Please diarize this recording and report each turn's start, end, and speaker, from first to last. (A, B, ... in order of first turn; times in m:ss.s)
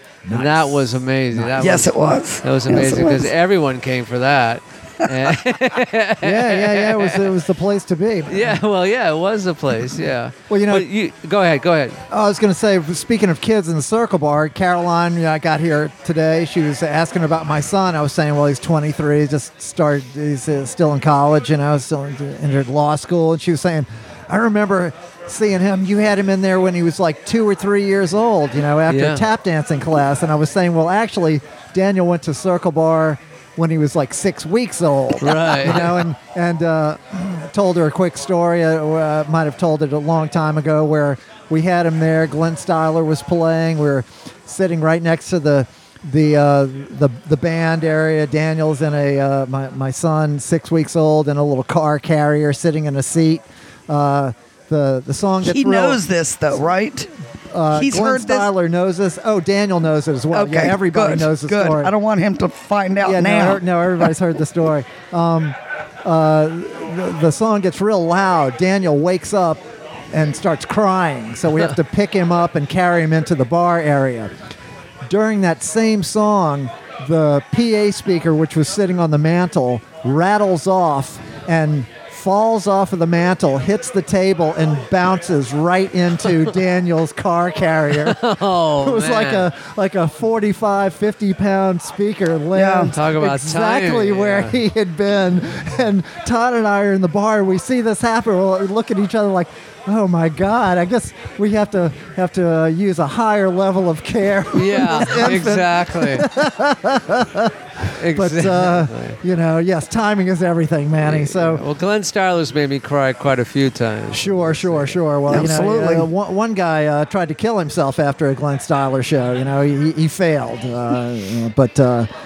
0:00.2-0:01.7 A
0:00.3-0:07.3 B
0:01.6-0:03.3 C
0:06.2-0:08.6 A
0:08.3-0:12.0 B
0:10.5-0:10.9 A
0:12.1-0:56.0 A
0:28.9-0:29.3 B
0:35.2-0:36.0 B
0:55.4-0:57.1 C
0:57.5-1:01.9 A
0:57.7-0:58.5 C
1:00.3-1:03.6 C
1:03.0-1:14.3 A
1:15.1-1:28.2 A
1:28.0-1:29.5 B
1:28.8-1:51.6 A
1:32.5-1:32.9 C
1:32.9-1:34.6 B
1:44.5-1:46.3 B
1:47.9-1:49.2 B
1:51.0-1:55.0 B
1:54.1-2:02.1 A
1:55.3-1:56.1 C